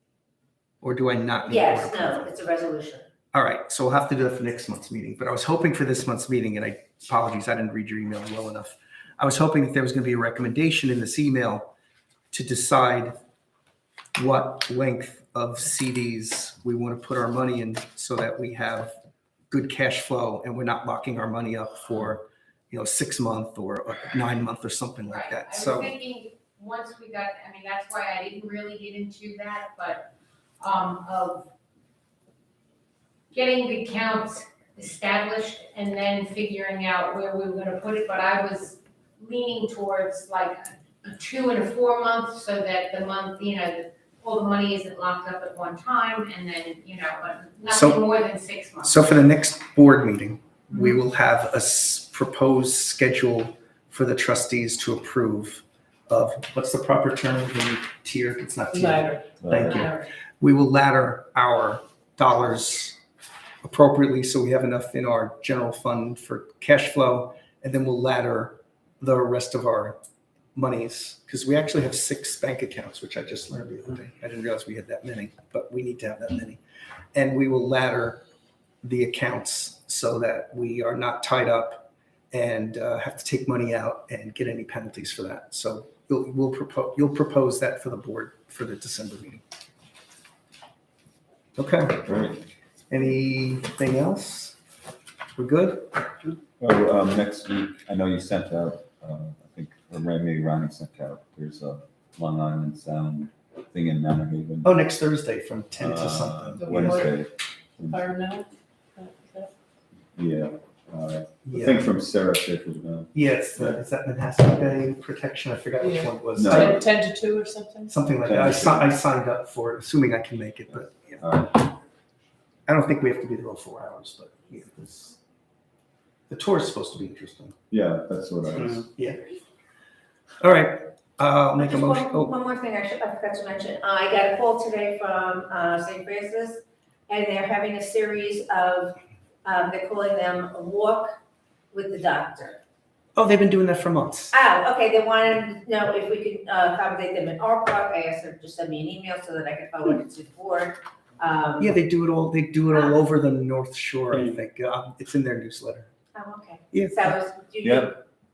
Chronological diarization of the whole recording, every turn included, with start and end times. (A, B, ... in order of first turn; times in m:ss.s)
0:00.8-0:02.3 A
0:01.5-0:03.1 B
0:03.3-0:11.7 A
0:12.3-0:13.2 A
0:14.2-0:18.9 A
0:19.5-0:25.9 A
0:25.1-0:31.5 C
0:33.3-0:49.0 C
0:47.7-0:48.0 A
0:48.8-1:03.0 A
0:58.7-0:59.2 D
0:59.4-0:59.9 E
1:03.6-1:10.0 A
1:10.6-1:16.6 A
1:17.1-1:18.2 A
1:18.8-1:29.4 A
1:31.6-1:32.0 A
1:32.0-1:32.4 E
1:32.9-1:34.6 A
1:35.4-1:35.9 A
1:36.6-1:44.7 E
1:44.6-1:47.1 A
1:45.8-1:48.1 E
1:46.6-1:47.1 D
1:47.8-1:49.5 D
1:50.2-1:53.8 E
1:51.4-1:51.9 A
1:53.1-1:56.8 A
1:55.8-1:57.9 D
1:56.4-1:56.8 E
1:57.9-2:01.2 A
1:58.2-1:58.9 E
2:01.2-2:01.6 E
2:02.7-2:05.2 A
2:06.3-2:07.6 A
2:07.7-2:08.9 E
2:09.0-2:09.2 A
2:10.4-2:12.3 A
2:11.6-2:21.2 B
2:21.7-2:22.6 B
2:23.2-2:24.3 A
2:24.3-2:31.8 B
2:31.6-2:35.9 A
2:36.2-2:38.0 B
2:36.7-2:37.1 A
2:37.6-2:38.0 E